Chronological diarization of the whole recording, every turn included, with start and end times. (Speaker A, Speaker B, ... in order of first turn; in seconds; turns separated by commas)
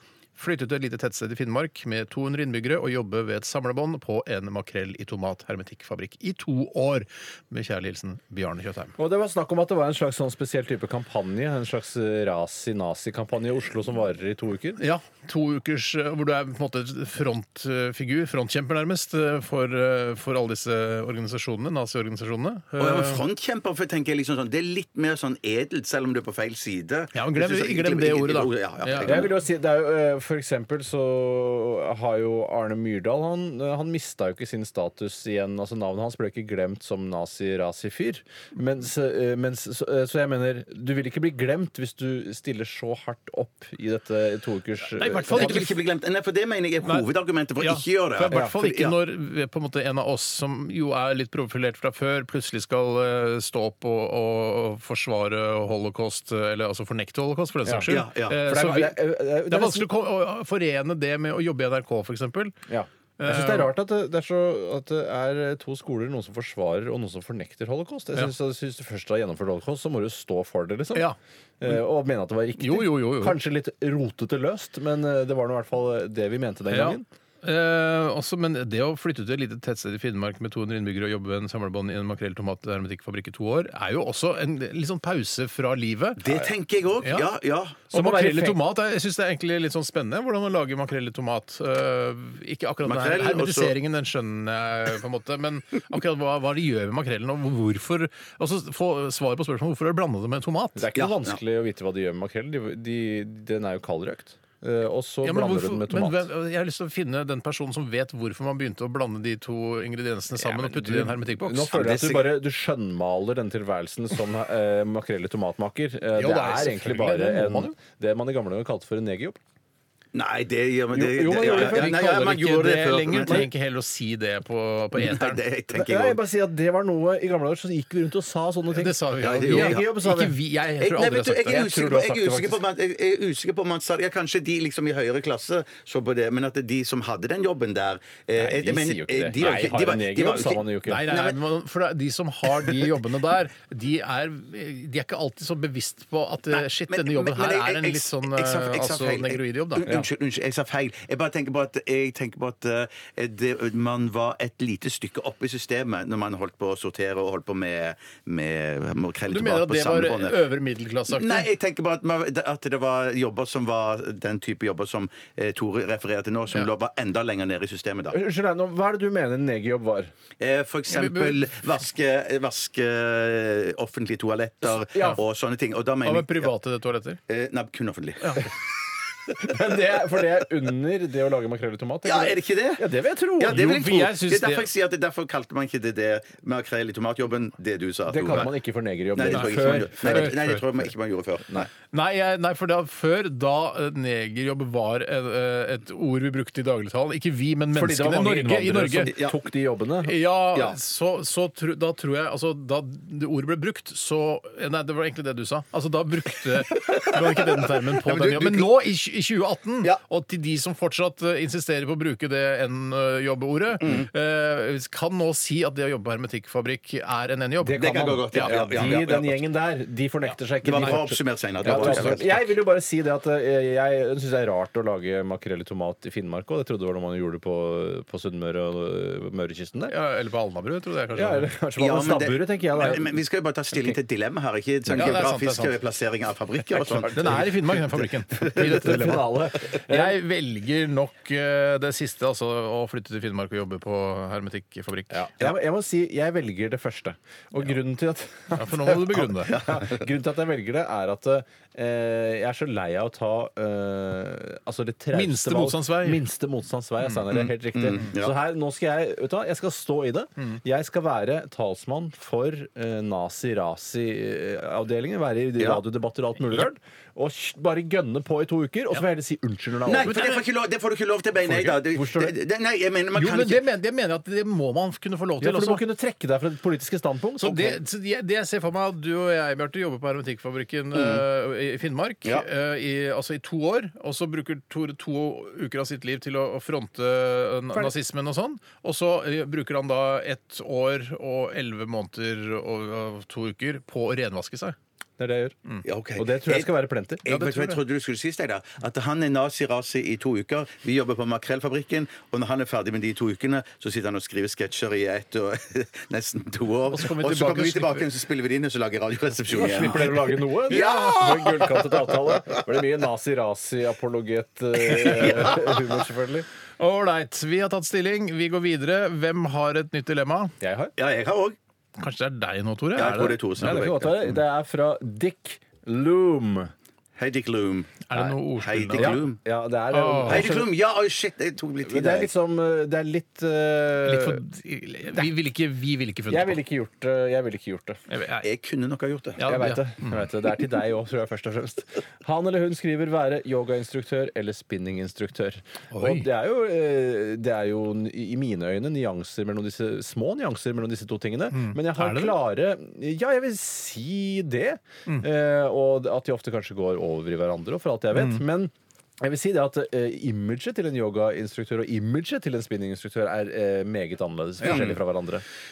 Speaker A: 0.3-8.9, Speaker B: 9.0-14.8, Speaker A: 14.8-23.2, Speaker C: 22.8-29.3, Speaker A: 27.1-29.2, Speaker B: 29.0-45.7, Speaker A: 44.9-45.8, Speaker C: 45.3-49.0, Speaker A: 46.8-62.5, Speaker B: 57.6-57.9, Speaker C: 57.9-58.4, Speaker B: 58.4-59.9, Speaker B: 62.7-71.1, Speaker A: 63.2-63.7, Speaker A: 70.9-71.8, Speaker B: 71.6-77.1, Speaker A: 72.5-73.4, Speaker A: 76.7-86.4, Speaker C: 86.2-87.8, Speaker A: 87.0-87.3, Speaker A: 87.9-100.9, Speaker B: 87.9-88.6, Speaker C: 92.8-93.7, Speaker B: 100.8-106.3, Speaker C: 101.0-101.4, Speaker A: 105.2-111.8, Speaker B: 110.4-119.4, Speaker C: 111.7-112.3, Speaker A: 116.1-117.7, Speaker C: 120.1-123.5, Speaker B: 120.9-122.0, Speaker A: 121.3-125.4, Speaker C: 125.0-126.2, Speaker B: 125.7-130.3, Speaker A: 128.7-131.7, Speaker C: 129.2-129.9, Speaker C: 130.8-141.4, Speaker B: 131.5-132.6, Speaker B: 138.3-141.1, Speaker A: 140.8-150.0, Speaker C: 146.6-160.4, Speaker A: 159.3-161.5, Speaker C: 161.1-168.2, Speaker B: 168.1-170.1, Speaker C: 170.4-176.5, Speaker A: 170.9-171.4, Speaker B: 174.9-175.2, Speaker A: 176.0-177.2, Speaker C: 177.3-178.5, Speaker A: 178.2-178.5, Speaker B: 179.3-183.8, Speaker C: 182.0-188.5, Speaker A: 183.4-184.7, Speaker B: 188.1-190.3, Speaker C: 189.1-191.7, Speaker A: 189.3-190.7, Speaker A: 191.9-199.1, Speaker B: 197.7-200.2, Speaker C: 199.1-199.4, Speaker A: 200.0-219.0, Speaker C: 206.8-208.8, Speaker C: 213.8-214.1, Speaker B: 217.6-229.9, Speaker C: 217.7-219.4, Speaker C: 220.6-222.4, Speaker A: 221.6-222.3, Speaker A: 229.9-231.5, Speaker B: 231.1-233.2, Speaker C: 231.8-237.5, Speaker B: 234.9-235.2, Speaker A: 234.9-235.8, Speaker B: 236.8-237.8, Speaker A: 236.8-245.3, Speaker B: 238.4-240.2, Speaker B: 245.1-270.2, Speaker A: 248.5-249.6, Speaker C: 249.5-249.9, Speaker A: 255.1-256.2, Speaker C: 257.3-258.4, Speaker C: 269.9-273.6, Speaker A: 270.0-270.4, Speaker A: 271.5-271.7, Speaker B: 271.8-272.3, Speaker A: 273.1-275.8, Speaker B: 275.4-277.8, Speaker A: 277.4-294.8, Speaker C: 280.9-281.2, Speaker B: 295.2-295.5, Speaker C: 295.8-296.7, Speaker B: 296.1-297.2, Speaker C: 297.2-312.3, Speaker A: 297.2-297.8, Speaker A: 306.9-308.1, Speaker B: 309.5-316.5, Speaker A: 310.7-311.2, Speaker A: 315.1-315.4, Speaker C: 315.2-315.7, Speaker A: 316.8-320.5, Speaker B: 320.6-320.9, Speaker C: 321.0-321.6, Speaker A: 322.0-323.7, Speaker C: 322.9-324.4, Speaker B: 323.6-326.7, Speaker C: 327.2-329.4, Speaker A: 328.1-329.2, Speaker B: 328.9-330.7, Speaker A: 329.9-330.6, Speaker C: 330.3-332.3, Speaker B: 331.8-334.4, Speaker A: 334.0-336.6, Speaker B: 336.3-338.0, Speaker A: 338.1-338.5, Speaker C: 338.4-339.4, Speaker A: 339.4-340.2, Speaker B: 339.4-365.4, Speaker A: 345.9-346.3, Speaker A: 351.5-352.4, Speaker A: 358.1-358.4, Speaker C: 364.6-364.9